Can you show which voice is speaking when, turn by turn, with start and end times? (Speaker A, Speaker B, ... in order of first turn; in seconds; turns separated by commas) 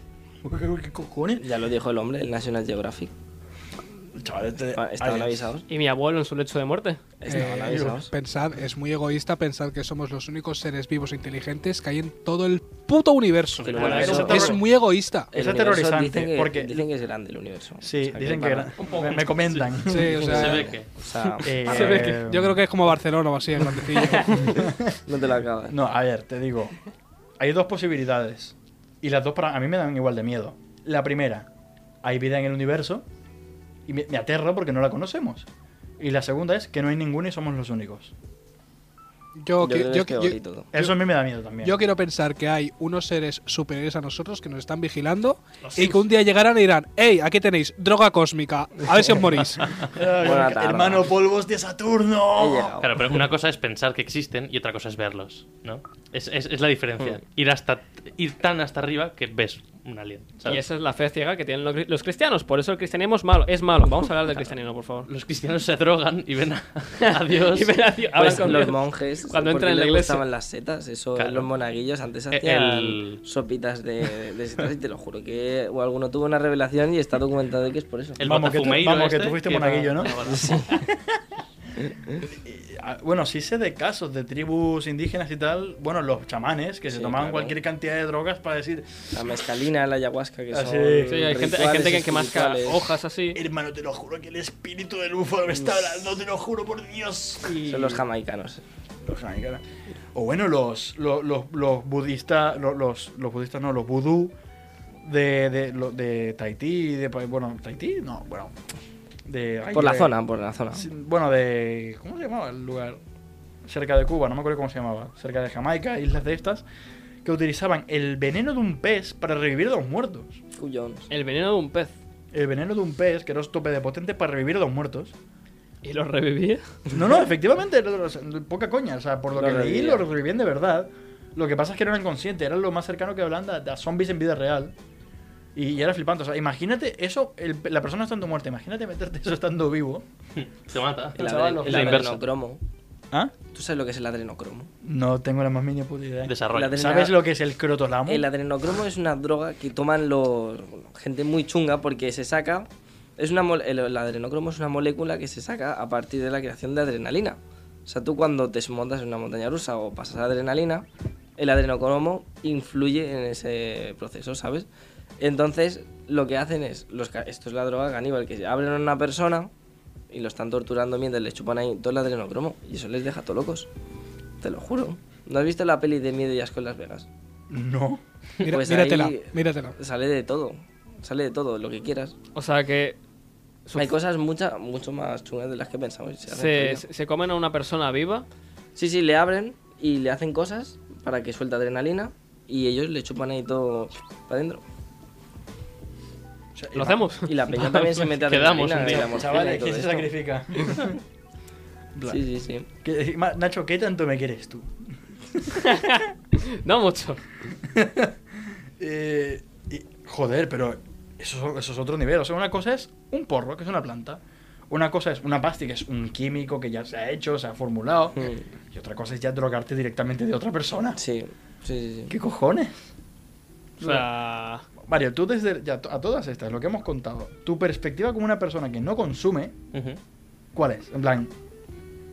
Speaker A: 0.4-1.4, Speaker B: 1.4-3.1, Speaker A: 4.2-5.5, Speaker B: 4.7-5.7, Speaker C: 5.7-7.0, Speaker B: 7.2-8.1, Speaker D: 7.3-15.3, Speaker A: 7.7-7.9, Speaker B: 13.6-14.6, Speaker A: 13.7-14.6, Speaker C: 13.8-14.5, Speaker A: 15.3-16.8, Speaker B: 15.3-18.7, Speaker A: 17.8-20.4, Speaker C: 18.8-19.3, Speaker D: 19.9-20.7, Speaker E: 20.1-20.9, Speaker B: 20.2-21.6, Speaker A: 21.4-22.6, Speaker D: 21.6-24.6, Speaker C: 21.7-22.2, Speaker C: 23.9-24.5, Speaker A: 24.5-25.0, Speaker B: 24.6-25.8, Speaker A: 25.7-26.8, Speaker A: 27.4-31.5, Speaker A: 32.0-33.0, Speaker A: 33.9-35.5, Speaker A: 36.0-38.1, Speaker D: 39.4-41.0, Speaker B: 39.6-40.7, Speaker A: 40.7-41.8, Speaker D: 41.6-49.7, Speaker C: 45.6-46.0, Speaker A: 49.8-52.8, Speaker B: 50.2-51.1, Speaker B: 52.3-52.9, Speaker E: 52.8-60.6, Speaker C: 60.5-65.1, Speaker E: 65.0-68.6, Speaker C: 67.0-70.2, Speaker B: 68.2-78.2, Speaker E: 71.2-71.5, Speaker E: 72.3-73.2, Speaker E: 78.2-80.7, Speaker A: 78.2-80.3, Speaker B: 80.2-80.8, Speaker A: 82.3-89.1, Speaker B: 86.9-87.6, Speaker B: 89.1-92.9, Speaker A: 90.5-91.4, Speaker C: 91.1-93.4, Speaker A: 93.3-98.0, Speaker B: 97.6-98.6, Speaker A: 99.0-99.6, Speaker A: 100.1-104.3, Speaker A: 105.0-108.5, Speaker A: 109.2-110.2, Speaker B: 109.7-110.9, Speaker A: 110.7-113.0, Speaker A: 113.6-116.6, Speaker A: 117.2-120.4, Speaker B: 120.5-121.1, Speaker C: 121.1-121.9, Speaker A: 122.3-125.1, Speaker C: 125.8-126.6, Speaker A: 126.9-134.7, Speaker B: 129.3-130.1, Speaker A: 135.5-140.0, Speaker E: 140.4-142.2, Speaker B: 141.1-142.6, Speaker C: 141.2-142.0, Speaker A: 141.6-141.9, Speaker B: 143.5-144.7, Speaker A: 144.8-148.3, Speaker E: 146.2-146.8, Speaker B: 146.5-147.2, Speaker B: 148.1-160.8, Speaker B: 161.4-164.7, Speaker B: 165.2-169.5, Speaker B: 170.1-173.7, Speaker B: 174.4-177.1, Speaker A: 177.5-178.0, Speaker D: 178.4-179.7, Speaker B: 178.4-182.1, Speaker C: 182.3-183.0, Speaker C: 183.7-183.9, Speaker B: 183.8-186.8, Speaker C: 186.3-188.2, Speaker B: 188.8-194.6, Speaker A: 196.6-197.1, Speaker C: 196.7-197.3, Speaker B: 197.2-200.1, Speaker E: 197.7-199.5, Speaker A: 198.8-201.0, Speaker A: 201.9-202.2, Speaker B: 202.1-202.7, Speaker A: 202.8-204.7, Speaker A: 205.3-205.6, Speaker C: 205.5-207.2, Speaker A: 207.7-208.1, Speaker A: 208.8-221.0, Speaker B: 218.2-218.4, Speaker B: 220.9-222.1, Speaker A: 222.1-222.8, Speaker A: 223.8-224.1, Speaker C: 223.8-224.6, Speaker A: 224.8-229.6, Speaker E: 229.7-230.0, Speaker A: 230.5-231.3